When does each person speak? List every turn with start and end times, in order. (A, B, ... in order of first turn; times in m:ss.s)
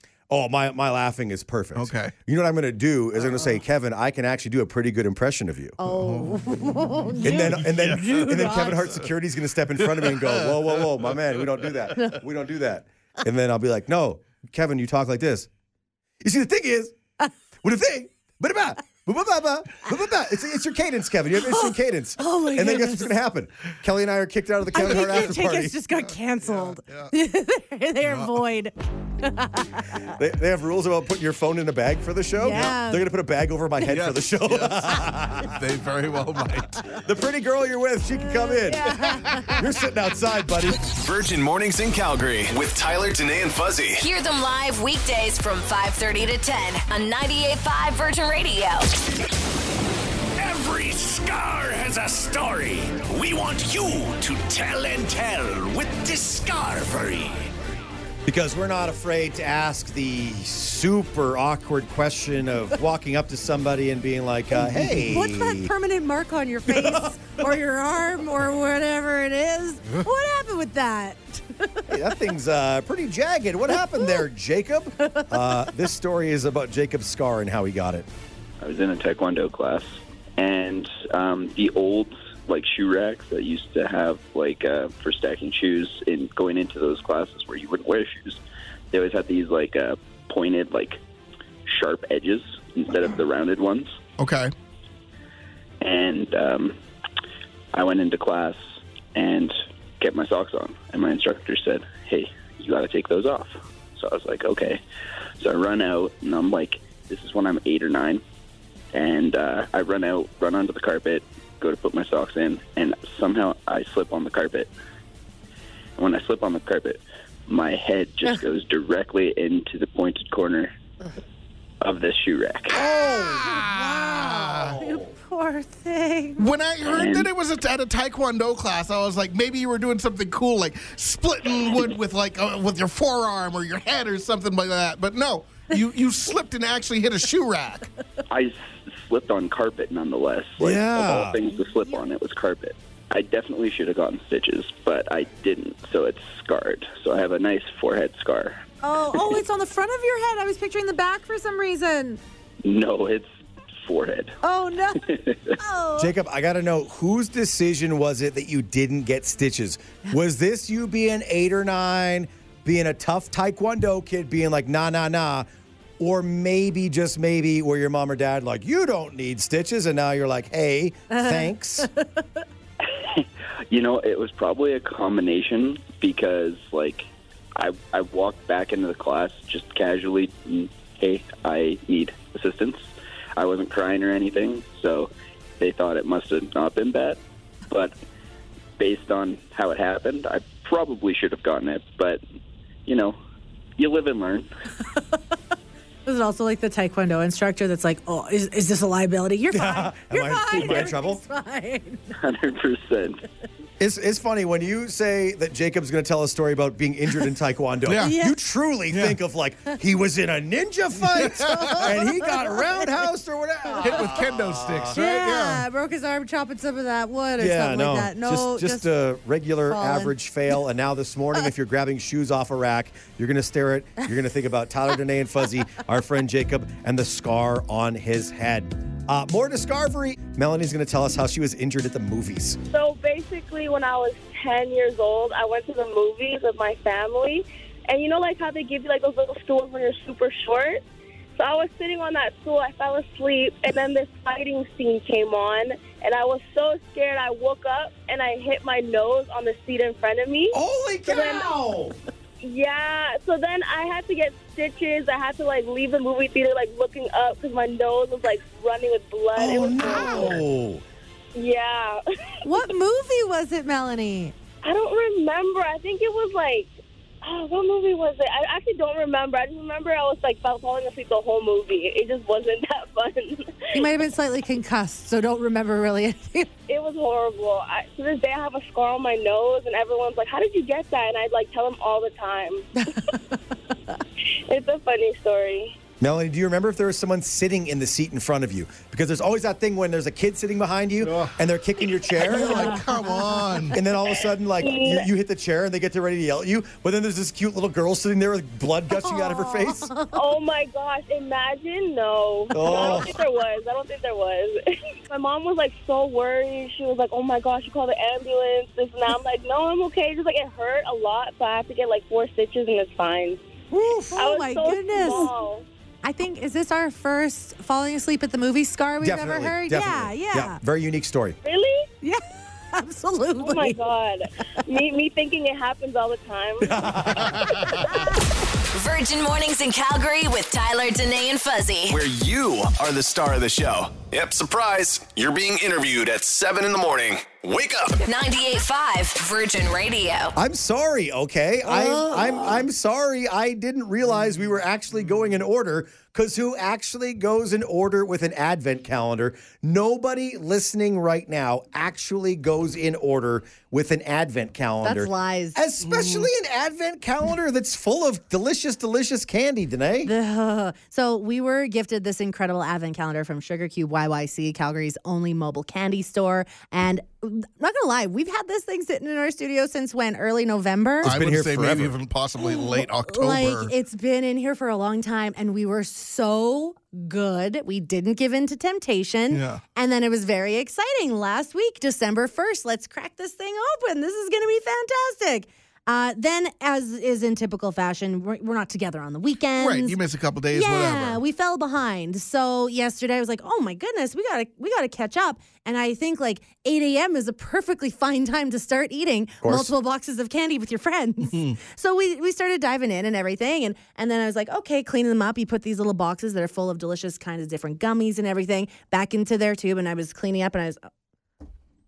0:00.3-0:05.8 A
0:01.8-0:02.1 B
0:05.8-0:08.7 C
0:05.9-0:06.4 B
0:07.2-0:15.5 A
0:07.3-0:08.9 B
0:09.8-0:12.1 B
0:16.2-0:17.0 A
0:17.6-0:25.7 A
0:21.4-0:23.1 C
0:24.7-0:30.1 C
0:26.0-0:27.1 B
0:28.0-0:28.3 B
0:30.1-0:35.6 A
0:32.4-0:33.0 C
0:32.4-0:32.7 B
0:33.9-0:36.8 B
0:37.0-0:39.0 A
0:38.5-0:39.6 C
0:39.1-0:39.5 B
0:39.5-0:40.8 A
0:40.8-0:44.0 D
0:44.0-0:48.9 E
0:50.4-0:57.5 F
0:58.2-1:05.7 A
1:04.6-1:04.9 B
1:04.8-1:12.0 C
1:06.7-1:07.1 A
1:11.9-1:18.1 A
1:13.7-1:14.2 C
1:15.0-1:15.7 C
1:18.6-1:28.4 G
1:28.9-1:31.0 G
1:31.6-1:34.0 G
1:34.2-1:34.5 B
1:35.8-1:36.8 G
1:37.7-1:38.6 G
1:39.1-1:44.8 G
1:45.4-1:48.2 G
1:48.9-1:54.7 G
1:56.0-2:00.7 G
2:01.8-2:02.7 G
2:02.7-2:05.1 A
2:02.7-2:04.8 B
2:04.8-2:06.5 C
2:06.4-2:17.9 B
2:06.8-2:07.3 G
2:18.3-2:28.6 G
2:20.6-2:21.4 A
2:28.8-2:32.2 C
2:32.6-2:33.3 G
2:33.8-2:34.3 G
2:34.4-2:36.1 C
2:35.0-2:35.6 G
2:36.0-2:45.5 A
2:46.0-2:51.9 A
2:51.1-2:52.2 C
2:52.9-3:08.0 G
3:08.8-3:12.2 G
3:12.8-3:13.2 G
3:13.8-3:14.5 G
3:16.0-3:22.2 C
3:19.5-3:21.2 A
3:22.2-3:23.2 G
3:23.8-3:35.0 A
3:27.8-3:28.1 B
3:28.0-3:28.4 C
3:28.9-3:29.2 B
3:31.2-3:31.9 B
3:31.4-3:32.9 C
3:33.8-3:35.6 B
3:34.9-3:38.9 C
3:37.4-3:52.6 A
3:39.6-3:40.1 C
3:52.7-4:00.8 H
4:01.4-4:11.5 H
4:10.5-4:11.9 A
4:12.4-4:20.4 H
4:19.3-4:20.8 A
4:21.3-4:22.0 H
4:22.4-4:24.3 C
4:24.6-4:26.7 H
4:27.2-4:33.8 H
4:33.7-4:36.5 C
4:36.7-4:42.6 H
4:42.8-4:43.4 C
4:44.5-4:45.8 H
4:46.0-4:52.8 A
4:51.0-4:51.4 B
4:52.2-4:53.8 B
4:52.2-4:53.7 C
4:53.7-4:59.9 A
4:54.6-4:55.1 H
4:58.9-5:00.3 C
5:00.1-5:13.4 H
5:02.5-5:03.1 A
5:02.6-5:03.0 C
5:13.7-5:14.1 A
5:13.8-5:15.3 C
5:14.1-5:15.6 H
5:16.0-5:20.6 C
5:19.0-5:21.4 A
5:21.4-5:21.9 H
5:22.0-5:23.8 C
5:23.4-5:26.8 H
5:26.6-5:27.6 A
5:27.2-5:27.8 B
5:28.7-5:32.0 E
5:31.9-5:38.0 D
5:38.0-5:40.3 E
5:40.4-6:00.1 A
5:41.7-5:42.6 C
5:54.8-5:55.6 C
5:55.8-5:56.3 B
6:00.0-6:11.1 C
6:11.0-6:12.0 A
6:11.0-6:13.7 B
6:12.4-6:30.0 C
6:19.3-6:19.6 B
6:29.6-6:31.2 B
6:30.5-6:50.8 C
6:39.4-6:39.7 A